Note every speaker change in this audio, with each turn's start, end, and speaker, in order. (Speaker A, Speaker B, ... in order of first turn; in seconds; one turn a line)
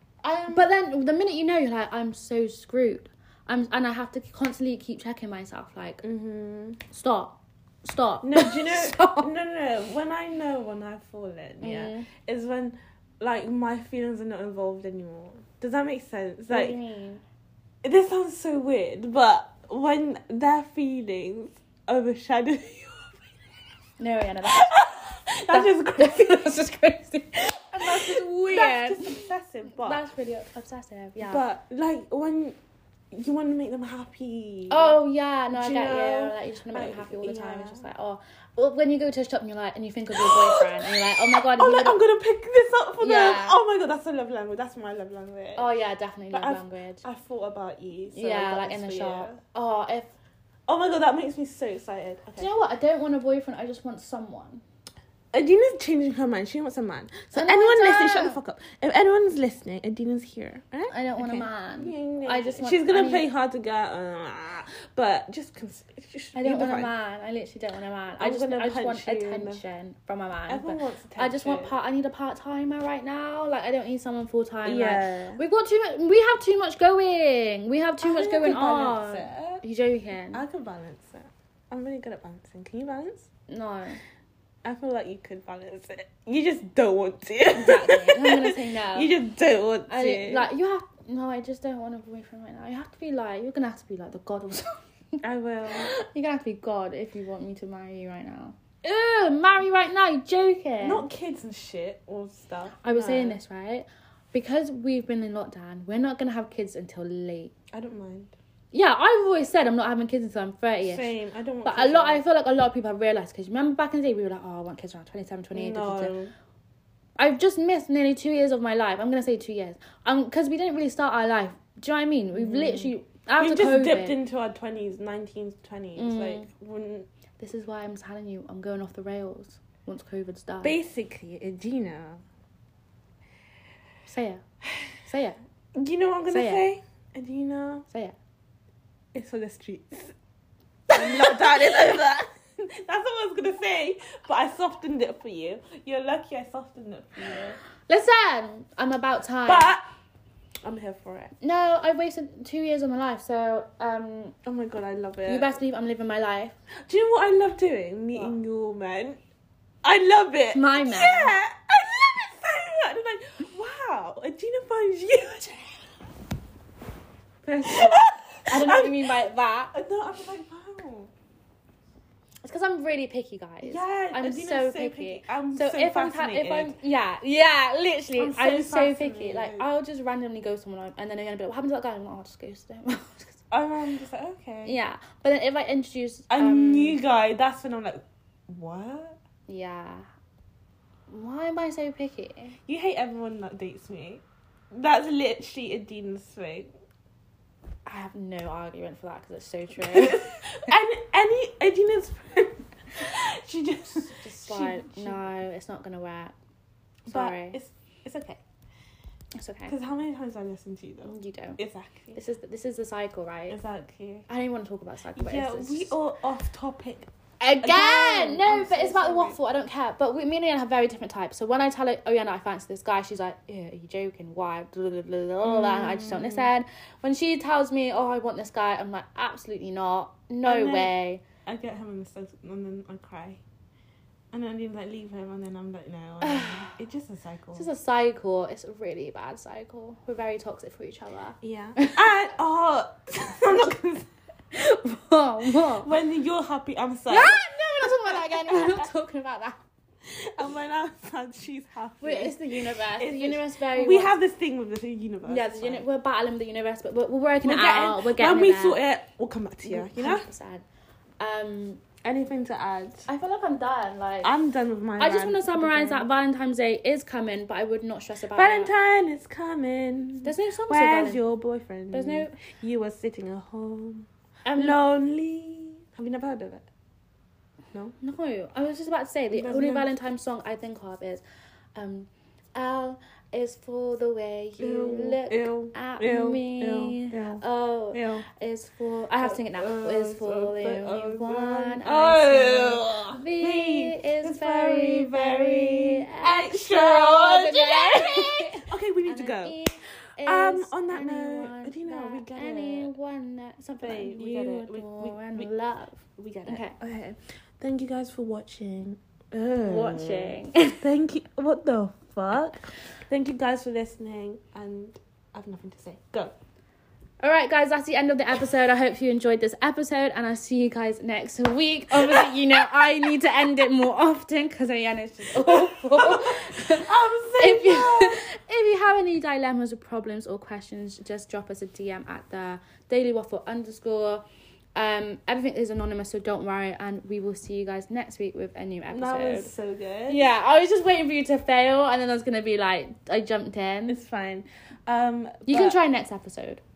Speaker A: 0.2-0.7
Speaker B: 0.5-6.0
Speaker A: 6.0-6.8
Speaker B: 6.9-9.3
Speaker A: 8.2-16.8
Speaker B: 11.6-12.1
Speaker B: 16.5-17.2
Speaker A: 17.8-23.2
Speaker B: 24.0-24.8
Speaker A: 24.4-26.5
Speaker B: 25.5-31.4
Speaker A: 27.4-30.0
Speaker A: 31.2-32.5
Speaker A: 33.1-35.0
Speaker B: 34.7-42.0
Speaker A: 35.5-37.9
Speaker A: 40.1-45.7
Speaker B: 43.0-43.6
Speaker B: 45.5-47.0
Speaker A: 46.3-49.4
Speaker B: 48.1-50.1
Speaker A: 50.7-52.5
Speaker B: 52.4-54.6
Speaker A: 55.3-66.9
Speaker B: 57.3-58.4
Speaker B: 60.9-63.2
Speaker B: 66.3-80.4
Speaker A: 68.2-69.6
Speaker A: 70.5-71.7
Speaker A: 74.6-75.4
Speaker A: 78.0-79.6
Speaker A: 80.3-83.3
Speaker B: 83.5-84.0
Speaker A: 84.6-90.5
Speaker B: 87.5-89.1
Speaker B: 89.9-95.2
Speaker A: 95.2-96.0
Speaker B: 95.7-101.0
Speaker A: 100.8-103.4
Speaker B: 102.8-107.5
Speaker A: 107.7-108.3
Speaker B: 108.7-111.1
Speaker A: 110.8-112.2
Speaker B: 111.6-116.1
Speaker A: 115.5-116.3
Speaker B: 117.2-124.2
Speaker A: 122.3-127.1
Speaker B: 126.0-126.5
Speaker B: 127.4-130.8
Speaker A: 130.6-132.2
Speaker B: 134.1-134.4
Speaker B: 135.0-135.4
Speaker A: 135.8-137.9
Speaker B: 136.3-136.6
Speaker B: 137.9-138.2
Speaker A: 139.1-140.1
Speaker A: 140.9-147.6
Speaker B: 147.9-149.7
Speaker A: 149.4-149.8
Speaker A: 150.6-151.3
Speaker B: 151.4-154.3
Speaker A: 154.4-155.6
Speaker B: 155.3-156.6
Speaker A: 156.8-159.2
Speaker A: 159.8-165.8
Speaker B: 160.5-161.4
Speaker B: 167.4-169.7
Speaker A: 167.6-169.2
Speaker A: 169.7-171.1
Speaker B: 172.4-183.4
Speaker A: 173.6-176.7
Speaker A: 178.2-179.7
Speaker A: 183.5-184.8
Speaker B: 184.6-187.0
Speaker A: 186.3-189.2
Speaker B: 189.5-190.1
Speaker B: 191.1-192.6
Speaker A: 192.7-196.7
Speaker B: 197.8-200.3
Speaker A: 199.8-205.2
Speaker B: 203.9-206.3
Speaker B: 207.1-207.6
Speaker A: 207.1-208.4
Speaker B: 209.3-209.7
Speaker A: 209.7-212.2
Speaker B: 211.1-211.6
Speaker B: 212.1-213.6
Speaker A: 213.5-214.3
Speaker B: 214.3-215.9
Speaker A: 215.1-217.1
Speaker B: 217.4-231.2
Speaker A: 217.6-219.4
Speaker A: 225.4-226.5
Speaker A: 230.4-230.9
Speaker A: 231.4-233.4
Speaker A: 234.3-237.7
Speaker B: 236.2-236.7
Speaker B: 237.6-242.1
Speaker A: 241.4-244.1
Speaker B: 244.5-245.9
Speaker A: 245.8-247.4
Speaker B: 247.1-249.6
Speaker A: 248.1-248.8
Speaker A: 250.1-255.8
Speaker B: 252.0-254.1
Speaker B: 255.3-258.8
Speaker A: 257.4-260.3
Speaker B: 259.6-260.6
Speaker B: 261.2-261.8
Speaker A: 262.0-263.1
Speaker B: 263.1-264.3
Speaker A: 264.2-266.1
Speaker B: 265.0-268.7
Speaker A: 268.3-276.7
Speaker B: 270.2-271.2
Speaker B: 271.9-272.4
Speaker B: 274.4-274.8
Speaker B: 278.0-281.2
Speaker A: 279.3-279.9
Speaker B: 281.7-306.7
Speaker A: 284.6-288.3
Speaker A: 289.2-299.6
Speaker A: 300.2-302.9
Speaker A: 303.8-305.5
Speaker A: 306.2-316.3
Speaker B: 309.6-310.8
Speaker B: 317.2-339.5
Speaker A: 325.4-328.2
Speaker A: 338.9-340.2
Speaker B: 340.1-344.0
Speaker A: 343.9-345.8
Speaker B: 345.5-346.6